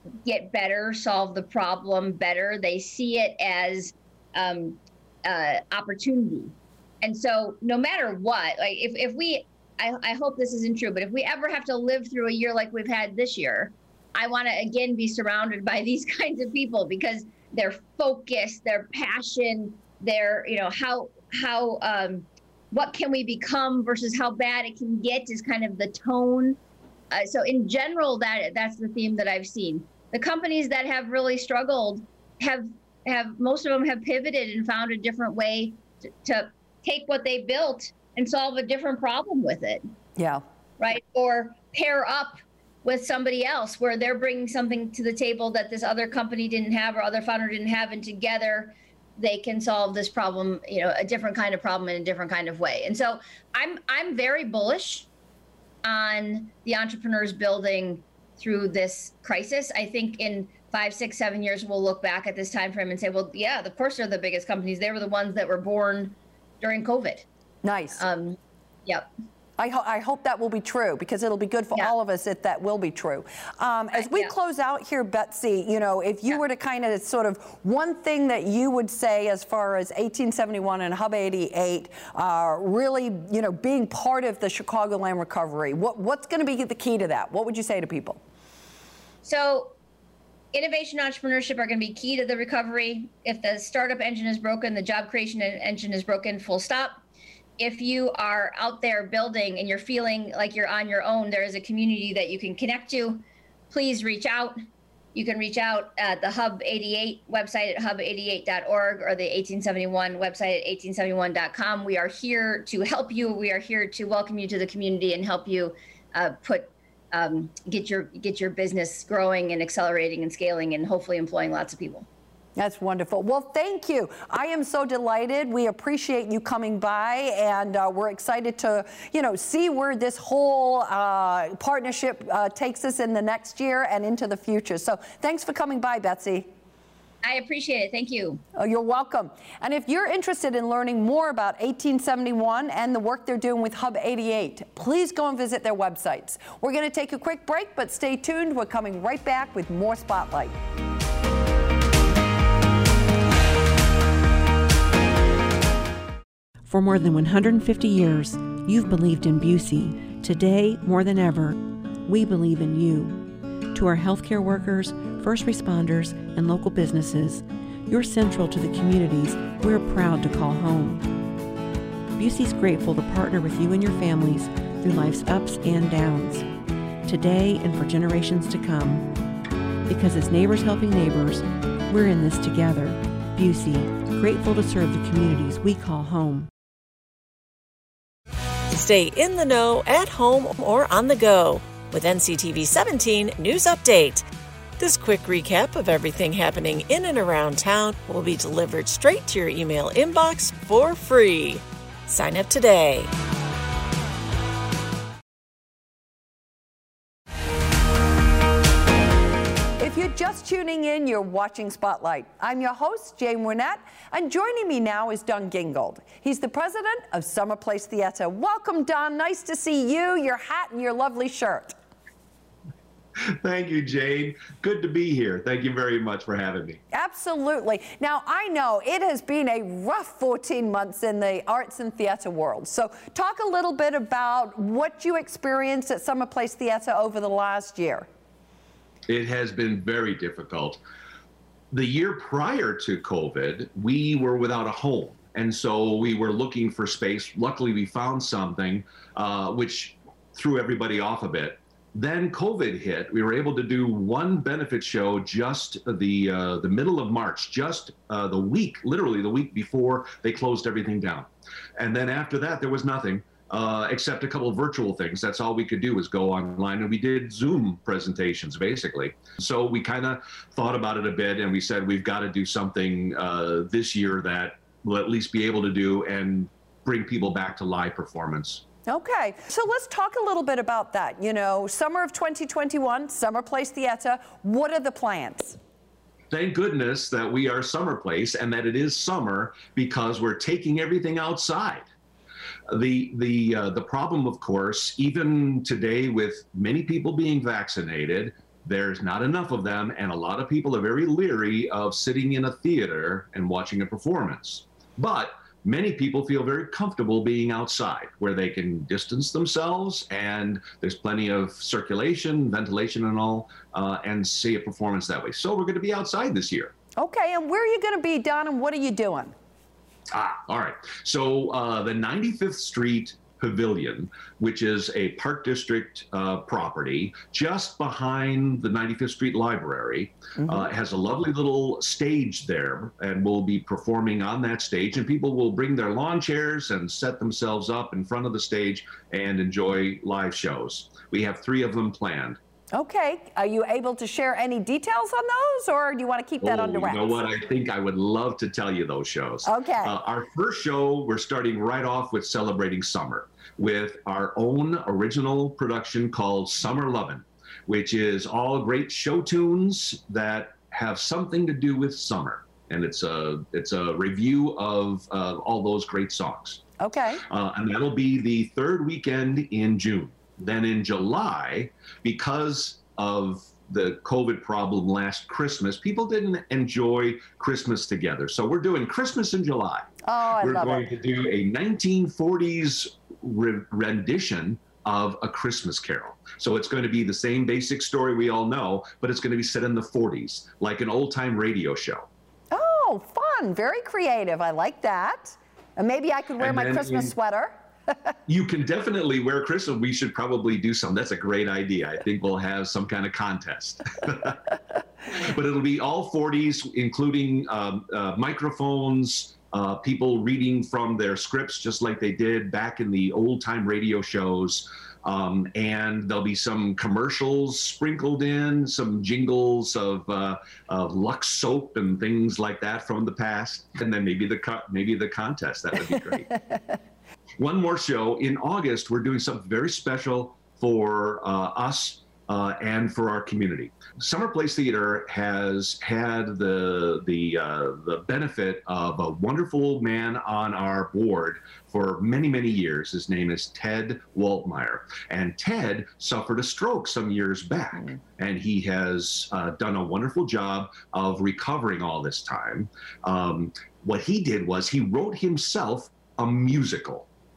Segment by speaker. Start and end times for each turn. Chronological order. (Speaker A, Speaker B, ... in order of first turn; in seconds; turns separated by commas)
Speaker A: 0.2-26.6, Speaker A: 27.1-39.8, Speaker B: 40.2-40.4, Speaker A: 40.8-55.1, Speaker A: 55.8-67.2, Speaker B: 67.6-68.0, Speaker A: 68.0-69.1, Speaker B: 69.6-88.2, Speaker A: 73.9-74.3, Speaker A: 89.2-89.7, Speaker A: 90.5-97.0, Speaker A: 97.6-104.6, Speaker A: 105.1-122.0, Speaker B: 122.5-136.5, Speaker A: 137.2-138.4, Speaker B: 138.6-150.6, Speaker C: 156.7-163.2, Speaker C: 163.7-171.1, Speaker C: 172.2-176.4, Speaker C: 177.0-179.1, Speaker C: 179.9-186.5, Speaker D: 188.7-194.3, Speaker D: 194.8-203.1, Speaker B: 209.8-221.7, Speaker E: 223.2-226.8, Speaker B: 226.9-238.1, Speaker E: 239.1-240.8, Speaker E: 241.7-278.6, Speaker B: 278.9-285.6, Speaker E: 286.3-291.8, Speaker E: 292.7-316.7, Speaker B: 316.9-319.3, Speaker E: 320.1-342.4, Speaker B: 330.4-330.7, Speaker B: 342.7-347.2, Speaker E: 346.4-366.6, Speaker B: 349.4-349.9, Speaker B: 366.8-367.2, Speaker E: 367.3-379.9, Speaker B: 380.0-380.9, Speaker E: 380.4-392.1, Speaker B: 392.5-398.1, Speaker E: 396.4-397.1, Speaker E: 398.3-404.5, Speaker E: 405.1-426.3, Speaker E: 427.4-457.1